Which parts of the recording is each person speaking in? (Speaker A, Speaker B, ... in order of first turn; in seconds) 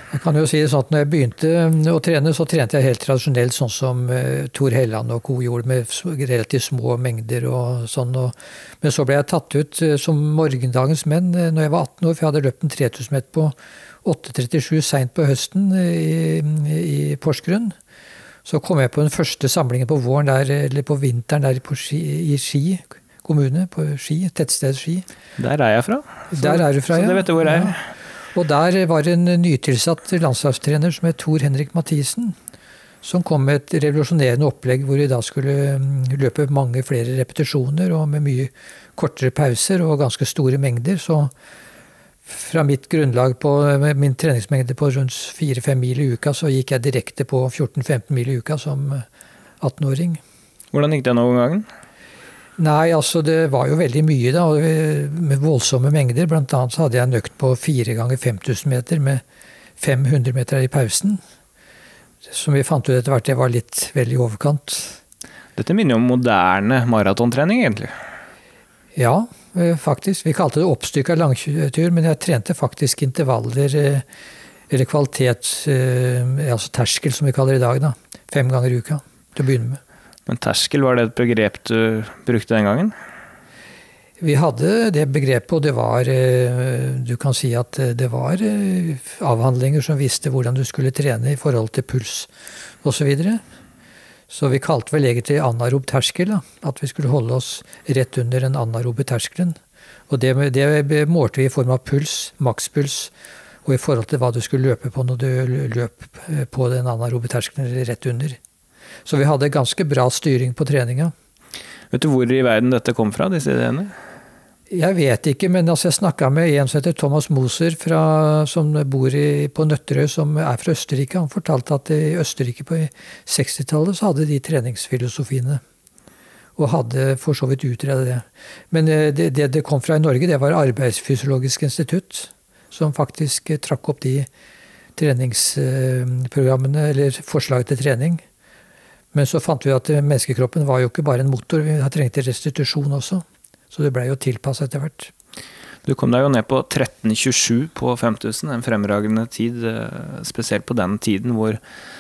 Speaker A: 0.1-17.7, 18.4-25.1, 26.3-27.8, 28.3-32.4, 33.0-41.3, 42.3-49.0, 49.6-50.2, 52.6-59.2, 59.8-61.2, 62.3-65.0, 69.0-74.0, 74.7-79.8, 84.2-92.3, 92.8-93.4, 94.3-99.6, 100.1-103.1, 103.7-108.4, 109.0-111.1, 114.7-125.6, 126.6-134.3, 135.0-138.2, 139.1-145.1
Speaker B: 25.4-27.8, 50.7-51.7, 65.6-67.9, 80.3-83.0, 111.9-113.9, 145.8-151.6